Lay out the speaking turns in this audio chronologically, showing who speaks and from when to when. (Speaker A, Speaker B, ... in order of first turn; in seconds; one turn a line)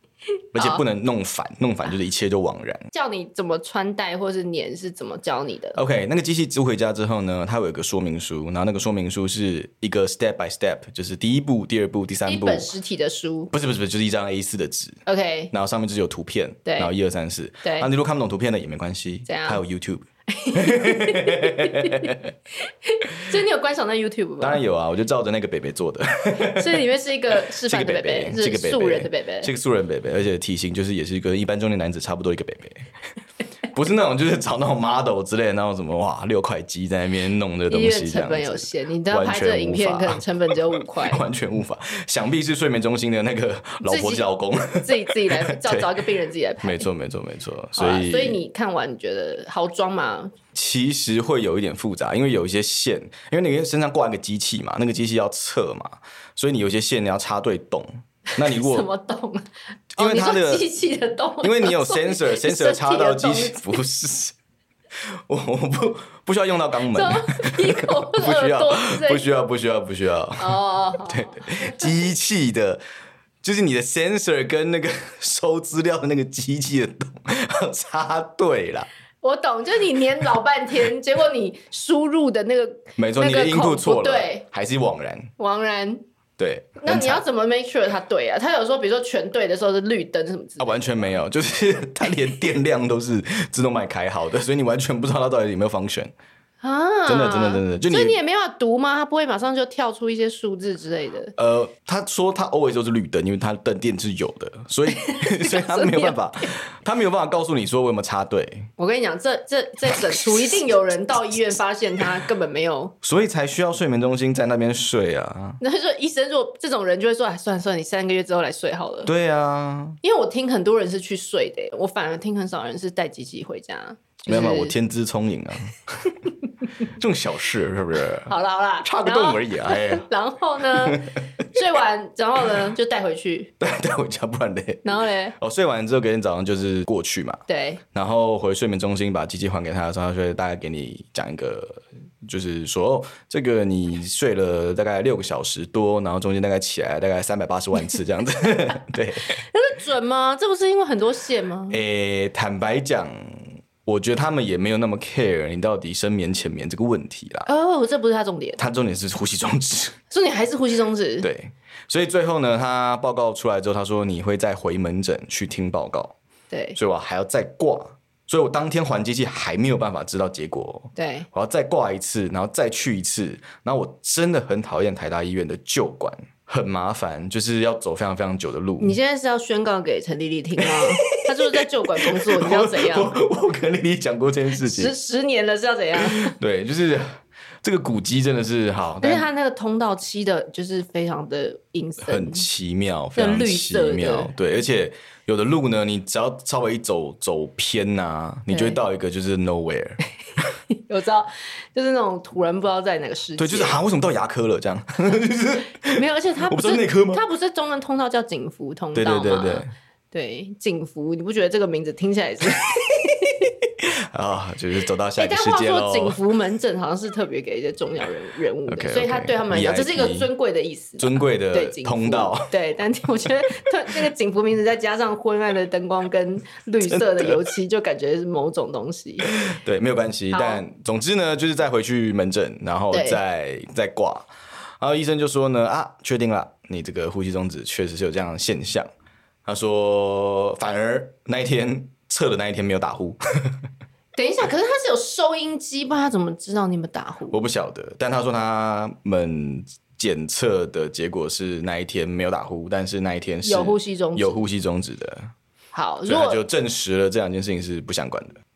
Speaker A: 0.5-2.9
Speaker B: 2.9-5.8
Speaker A: 5.7-12.7
Speaker B: 12.2-13.5
Speaker A: 13.5-22.3
Speaker B: 15.1-15.5
Speaker B: 16.6-16.9
Speaker B: 17.6-17.9
Speaker B: 19.2-19.6
Speaker B: 20.3-24.6
Speaker A: 24.4-26.8
Speaker B: 26.4-29.5
Speaker A: 27.5-32.9
Speaker A: 33.7-45.9
Speaker B: 37.7-41.2
Speaker B: 43.8-44.3
Speaker B: 44.8-46.9
Speaker A: 46.6-48.4
Speaker B: 47.8-50.3
Speaker A: 50.5-58.9
Speaker B: 58.3-63.8
Speaker A: 59.9-60.7
Speaker A: 61.4-64.3
Speaker A: 65.0-72.8
Speaker B: 66.9-69.2
Speaker B: 70.4-71.9
Speaker A: 73.4-78.9
Speaker B: 79.2-84.4
Speaker A: 83.0-85.3
Speaker B: 85.4-86.0
Speaker A: 86.4-87.2
Speaker B: 86.8-90.9
Speaker A: 90.6-96.1
Speaker B: 96.6-101.3
Speaker A: 97.1-98.2
Speaker A: 101.4-108.7
Speaker B: 105.0-106.5
Speaker B: 108.8-112.9
Speaker A: 109.9-110.6
Speaker A: 113.0-115.6
Speaker B: 115.6-119.1
Speaker A: 119.0-120.0
Speaker B: 120.0-124.7
Speaker A: 124.2-126.1
Speaker A: 126.8-128.3
Speaker B: 128.3-133.5
Speaker A: 128.8-130.1
Speaker A: 130.6-131.4
Speaker A: 133.6-137.4
Speaker B: 134.8-135.3
Speaker B: 137.5-137.8
Speaker A: 137.9-149.3
Speaker B: 149.4-151.8
Speaker A: 151.7-157.5
Speaker B: 157.4-158.6
Speaker A: 158.6-160.0
Speaker B: 160.1-161.3
Speaker A: 161.2-166.2
Speaker B: 166.5-166.8
Speaker A: 166.8-179.0
Speaker B: 170.9-171.3
Speaker B: 178.8-183.2
Speaker A: 180.6-184.9
Speaker B: 184.6-186.3
Speaker A: 186.0-189.3
Speaker B: 189.0-192.5
Speaker A: 192.0-200.0
Speaker B: 193.2-194.3
Speaker B: 198.5-198.8
Speaker B: 200.7-203.8
Speaker A: 203.4-207.2
Speaker B: 205.9-213.4
Speaker A: 208.9-209.7
Speaker A: 213.6-216.2
Speaker B: 215.2-229.3
Speaker A: 218.7-220.3
Speaker A: 221.0-222.5
Speaker A: 226.8-227.4
Speaker A: 229.2-234.3
Speaker B: 230.3-230.6
Speaker B: 232.9-233.2
Speaker A: 234.8-238.9
Speaker A: 239.4-243.6
Speaker B: 244.2-247.4
Speaker A: 247.3-255.3
Speaker B: 253.4-254.3
Speaker B: 255.7-256.4
Speaker A: 256.1-258.4